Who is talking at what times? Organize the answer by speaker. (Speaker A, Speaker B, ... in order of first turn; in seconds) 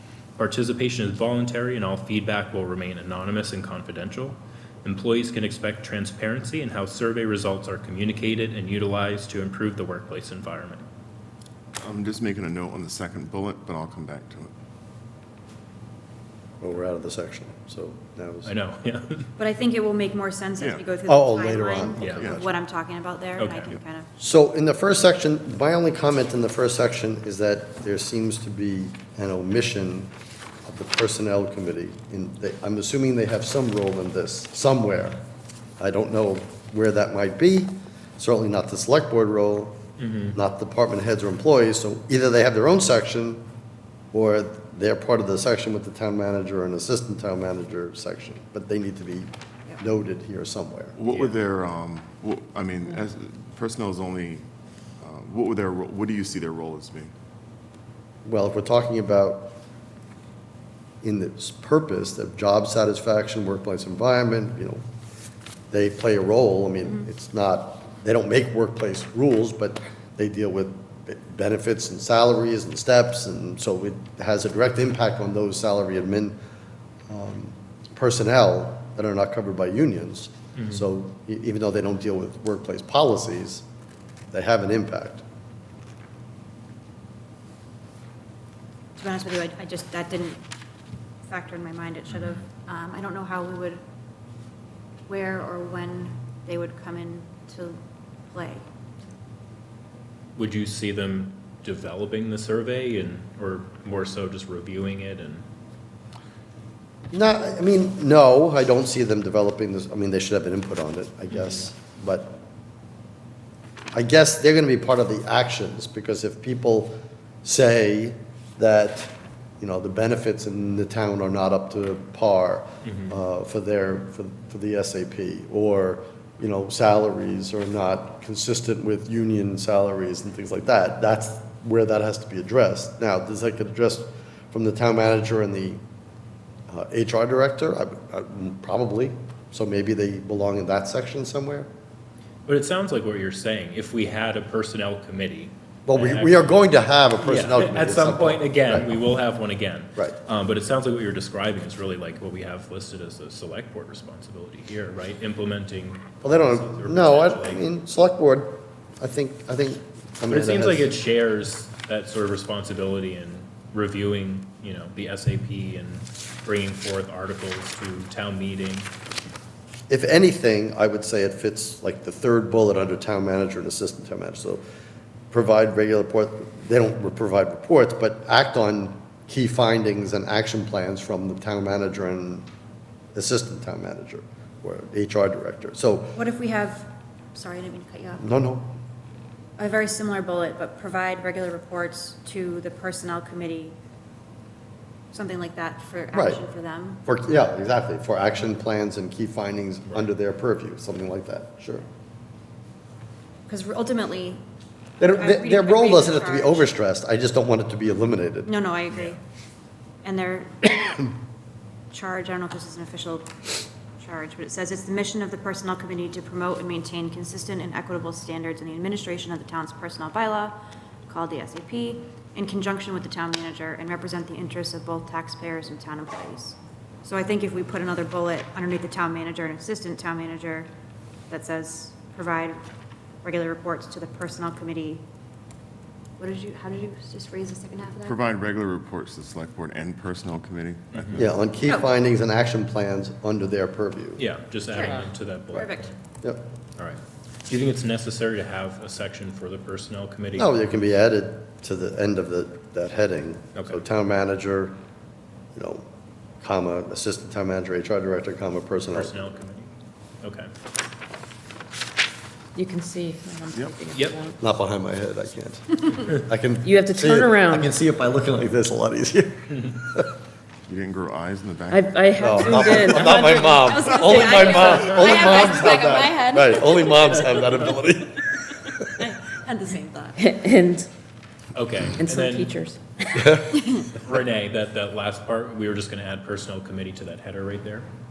Speaker A: 0.4-10.8, 18.4-19.3, 21.9-22.3, 23.4-23.8, 40.0-40.4, 80.5-80.8, 92.1-92.4, 100.3-105.4, 111.3-111.6, 122.8-123.1, 142.5-146.6, 147.2-157.7, 160.3-168.9, 240.9-241.3, 244.2-245.9, 246.8-250.6, 253.5-253.8, 258.9-259.7, 260.2-260.5, 263.9-264.2, 281.5-282.5, 283.4-287.9
Speaker B: 11.8-14.5, 20.6-20.9, 51.0-54.4, 55.0-57.1, 238.0-241.2, 270.7-272.9
Speaker C: 16.6-18.5, 21.1-22.5, 24.2-30.1, 30.6-35.2, 35.8-39.8, 40.3-43.4, 44.1-51.0, 58.2-59.6, 61.0-64.8, 65.7-76.3, 77.1-83.6, 84.3-85.2, 107.1-112.4, 113.9-135.8, 136.7-141.7, 145.9-148.9, 156.2-160.9, 169.9-174.6, 175.3-182.5, 183.1-186.2, 188.2-188.7, 196.1-196.4, 197.0-201.8, 205.0-208.5, 241.1-244.2, 250.3-254.8, 255.5-255.8, 256.4-259.2, 264.4-270.1, 272.2-278.6, 283.2-283.5
Speaker D: 19.4-24.1, 89.0-90.4, 91.3-93.8, 95.1-98.6, 186.1-188.2, 189.6-193.8, 195.1-197.0, 203.5-204.4, 205.0-206.7, 208.4-209.2, 210.0-211.1, 211.9-213.3, 214.0-220.6, 221.1-230.7, 231.3-232.6, 233.2-235.0, 236.2-238.2, 244.7-245.9, 272.9-277.5, 279.0-280.2
Speaker E: 262.5-264.4, 266.6-267.7, 271.7-274.4, 280.2-280.9, 281.9-283.3